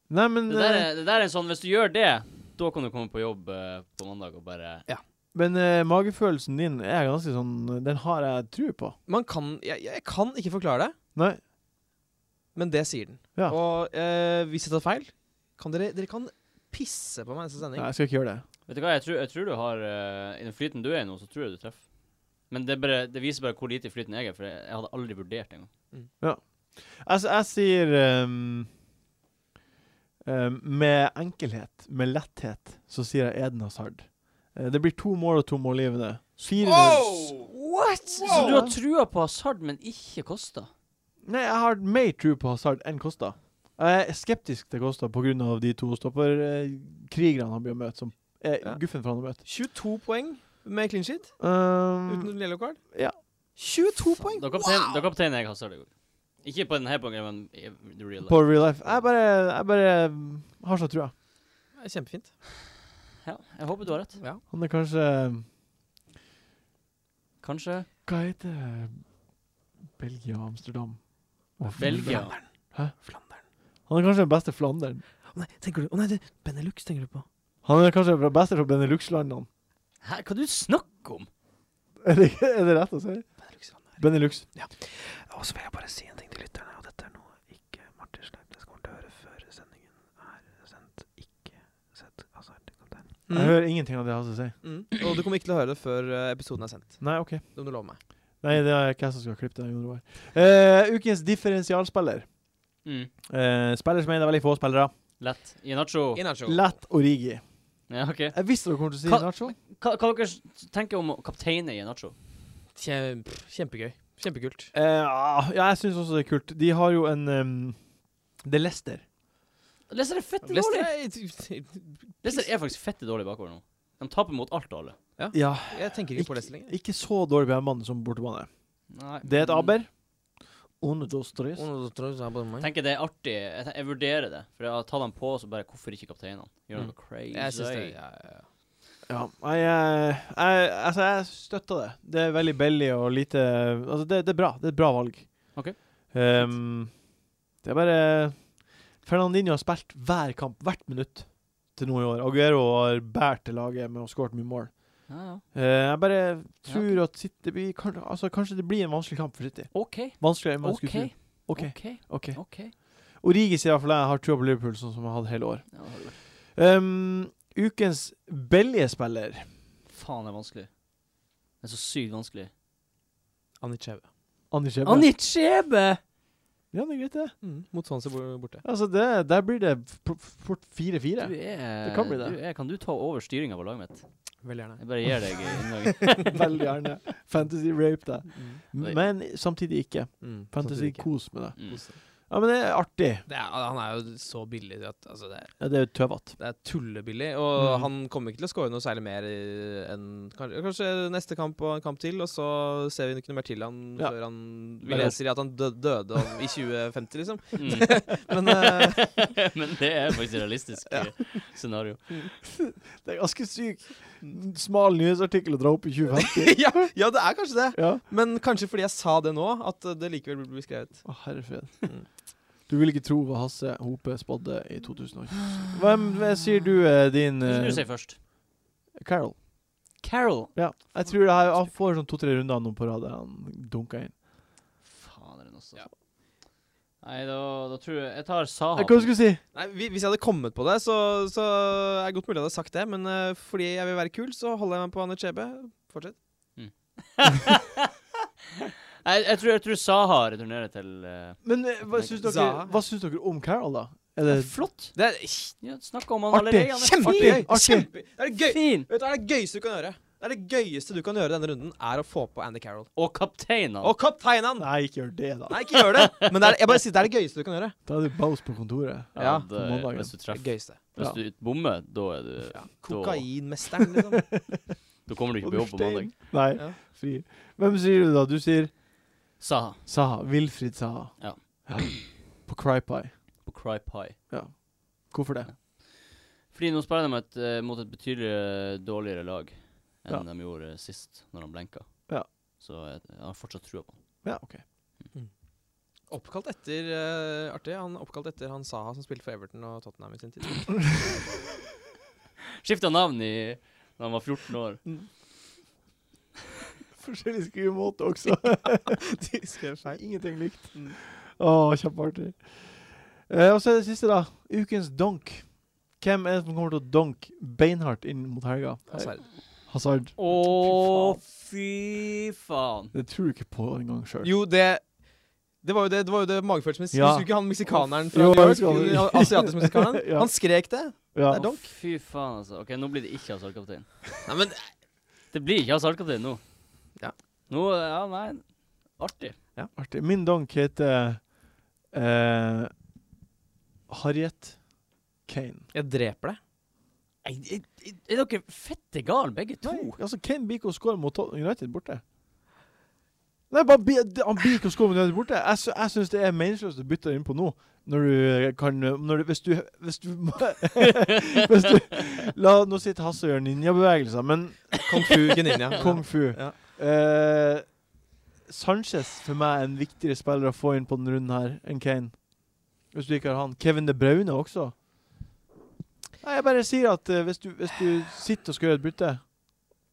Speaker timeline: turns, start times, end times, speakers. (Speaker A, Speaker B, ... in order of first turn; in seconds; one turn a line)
Speaker A: 0.1-0.9
Speaker B: 0.5-4.8
Speaker A: 5.3-9.0
Speaker C: 9.1-10.9
Speaker A: 11.2-11.4
Speaker C: 12.6-17.9
Speaker A: 17.8-18.4
Speaker B: 18.7-21.9
Speaker B: 22.5-25.7
Speaker A: 26.2-28.7
Speaker A: 30.2-37.4
Speaker C: 36.6-37.5
Speaker B: 37.4-40.7
Speaker C: 38.2-38.6
Speaker A: 38.2-38.8
Speaker A: 41.2-49.4
Speaker C: 48.6-53.0
Speaker A: 51.4-52.3
Speaker C: 53.6-55.0
Speaker B: 54.3-55.9
Speaker B: 56.4-59.0
Speaker A: 58.2-61.1
Speaker C: 61.8-62.4
Speaker B: 63.2-64.2
Speaker C: 64.2-64.4
Speaker A: 64.5-65.5
Speaker B: 67.4-67.9
Speaker A: 68.0-69.0
Speaker A: 70.0-71.0
Speaker A: 71.6-73.0
Speaker B: 71.7-72.4
Speaker C: 71.8-73.4
Speaker A: 73.9-75.0
Speaker C: 75.3-77.2
Speaker A: 77.6-79.5
Speaker B: 80.0-81.3
Speaker A: 82.0-83.3
Speaker C: 83.5-93.8
Speaker A: 84.0-84.5
Speaker A: 93.3-94.6
Speaker C: 94.6-98.0
Speaker A: 97.0-97.6
Speaker A: 98.4-102.4
Speaker B: 102.8-103.1
Speaker A: 103.3-104.9
Speaker B: 105.2-106.2
Speaker C: 106.2-106.8
Speaker A: 106.5-109.6
Speaker B: 107.9-112.2
Speaker C: 112.8-114.7
Speaker A: 114.7-117.8
Speaker A: 118.4-119.0
Speaker B: 119.9-120.9
Speaker C: 120.4-122.5
Speaker B: 122.2-125.0
Speaker C: 125.2-126.7
Speaker A: 125.3-128.5
Speaker B: 128.9-129.7
Speaker A: 129.1-129.9
Speaker A: 130.8-131.7
Speaker C: 131.6-132.7
Speaker B: 132.6-137.9
Speaker C: 136.8-138.5
Speaker A: 139.1-147.1
Speaker B: 145.6-146.6
Speaker A: 147.6-169.5
Speaker B: 155.1-155.4
Speaker B: 156.7-157.0
Speaker B: 159.7-162.7
Speaker B: 165.7-166.2
Speaker B: 169.9-170.7
Speaker B: 171.6-172.5
Speaker C: 173.6-174.1
Speaker A: 174.5-175.2
Speaker B: 174.8-176.0
Speaker A: 176.7-177.4
Speaker C: 177.4-178.6
Speaker A: 178.6-182.4
Speaker B: 181.2-184.1
Speaker C: 184.4-186.3
Speaker B: 184.8-186.4
Speaker A: 186.3-193.2
Speaker C: 188.4-188.6
Speaker C: 190.2-192.0
Speaker B: 191.6-191.8
Speaker C: 193.3-209.4
Speaker A: 195.6-196.4
Speaker A: 197.6-197.9
Speaker A: 204.8-205.2
Speaker B: 207.6-212.2
Speaker C: 210.9-211.3
Speaker A: 212.5-216.9
Speaker C: 216.1-222.1
Speaker A: 217.7-218.0
Speaker A: 221.1-222.1
Speaker A: 222.7-227.9
Speaker B: 227.4-228.2
Speaker A: 229.0-229.4
Speaker B: 230.0-231.7
Speaker A: 230.6-234.2
Speaker B: 234.8-235.9
Speaker B: 237.0-239.2
Speaker A: 238.8-239.4
Speaker C: 239.5-246.2
Speaker B: 246.6-247.9
Speaker B: 249.0-251.4
Speaker A: 251.4-254.5
Speaker C: 252.2-252.8
Speaker B: 254.2-254.9
Speaker C: 254.9-255.6
Speaker B: 255.6-257.5
Speaker A: 256.3-257.9
Speaker C: 256.8-262.9
Speaker B: 258.4-258.9
Speaker B: 263.0-263.9
Speaker C: 263.8-264.9
Speaker A: 264.6-265.6
Speaker C: 265.5-267.8
Speaker A: 267.9-270.1
Speaker B: 269.1-273.3
Speaker C: 269.2-269.5
Speaker C: 270.3-270.8
Speaker C: 272.5-274.4
Speaker A: 274.1-274.6
Speaker B: 275.1-276.1
Speaker A: 275.4-278.7
Speaker B: 279.4-279.8
Speaker A: 279.9-283.1
Speaker B: 281.2-281.9
Speaker B: 283.4-284.2
Speaker A: 284.3-285.5
Speaker B: 285.5-285.9
Speaker B: 286.5-292.1
Speaker B: 292.6-294.0
Speaker A: 294.2-294.6
Speaker C: 296.1-301.2
Speaker B: 302.6-304.8
Speaker A: 307.0-309.2
Speaker C: 308.4-311.0
Speaker A: 309.9-321.2
Speaker C: 318.9-319.3
Speaker B: 320.2-322.9
Speaker A: 322.9-324.3
Speaker C: 324.2-331.5
Speaker A: 326.9-331.6
Speaker B: 331.3-333.9
Speaker C: 334.3-334.6
Speaker B: 335.3-336.4
Speaker B: 337.5-339.4
Speaker A: 339.8-341.3
Speaker A: 341.9-342.7
Speaker A: 343.9-344.6
Speaker A: 345.3-345.7
Speaker C: 345.7-346.4
Speaker B: 347.2-350.0
Speaker A: 349.6-352.0
Speaker A: 353.5-364.8
Speaker C: 364.9-366.6
Speaker A: 365.8-367.8
Speaker A: 368.4-374.8
Speaker A: 376.2-379.3